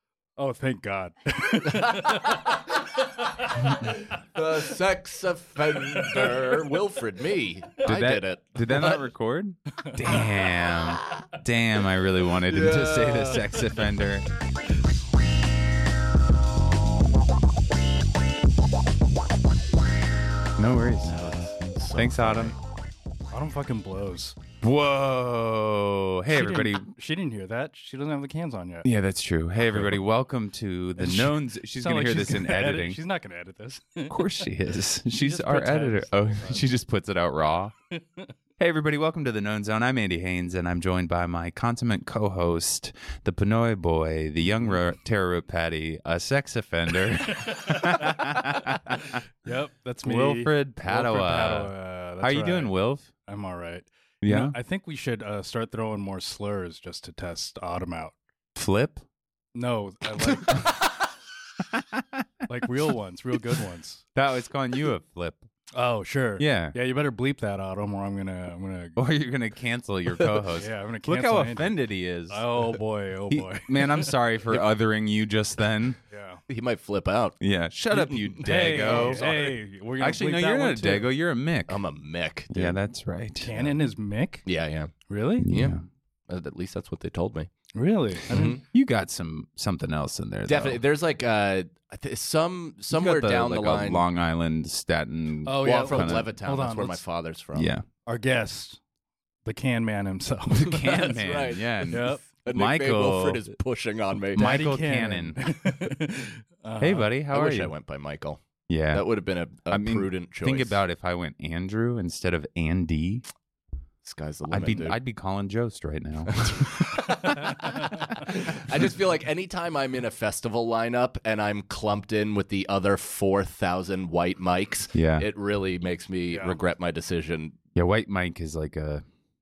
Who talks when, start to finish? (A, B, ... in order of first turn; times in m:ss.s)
0:00.4-0:02.7 A
0:01.6-0:02.8 B
0:03.2-0:04.0 A
0:03.8-0:09.0 B
0:05.8-0:06.6 A
0:07.8-0:14.2 C
0:09.8-0:10.1 A
0:10.8-0:11.2 B
0:12.5-0:13.6 B
0:20.6-0:21.2 C
0:21.0-0:22.6 B
0:21.9-0:22.6 C
0:23.3-0:24.4 A
0:24.6-0:26.9 C
0:26.3-0:28.9 A
0:28.8-0:33.0 C
0:31.0-0:34.5 A
0:34.1-0:37.7 C
0:35.1-0:36.6 A
0:37.9-0:38.3 A
0:38.6-0:49.2 C
0:47.1-0:58.1 A
0:50.0-0:53.1 C
0:54.2-0:54.6 C
0:58.6-0:59.0 C
0:59.6-1:00.9 A
1:01.7-1:02.2 C
1:02.5-1:04.0 A
1:04.1-1:05.5 C
1:05.8-1:09.0 A
1:06.4-1:06.8 C
1:09.0-1:12.6 C
1:10.6-1:11.8 A
1:12.3-1:14.1 A
1:13.3-1:16.0 C
1:16.1-1:16.4 A
1:16.5-1:17.4 B
1:17.4-1:21.8 C
1:17.9-1:19.5 B
1:18.4-1:21.1 A
1:21.7-1:22.8 B
1:22.5-1:23.5 C
1:23.4-1:24.4 A
1:24.4-1:24.9 B
1:25.1-1:25.5 A
1:25.4-1:25.8 C
1:25.5-1:25.8 B
1:26.3-1:27.5 B
1:27.8-1:28.6 A
1:28.3-1:28.6 B
1:28.7-1:30.8 C
1:30.5-1:34.0 B
1:32.9-1:36.3 C
1:35.4-1:37.0 A
1:35.6-1:37.7 B
1:37.6-1:37.8 C
1:38.1-1:38.8 A
1:39.4-1:40.8 A
1:40.5-1:43.4 C
1:40.6-1:44.4 B
1:41.9-1:42.2 A
1:44.3-1:47.1 A
1:44.3-1:45.4 C
1:46.8-1:47.7 C
1:47.3-1:50.8 B
1:48.7-1:49.1 C
1:49.7-1:53.2 C
1:54.0-1:55.0 B
1:54.5-1:57.9 C
1:56.3-2:07.6 B
2:04.9-2:05.3 C
2:07.8-2:09.0 C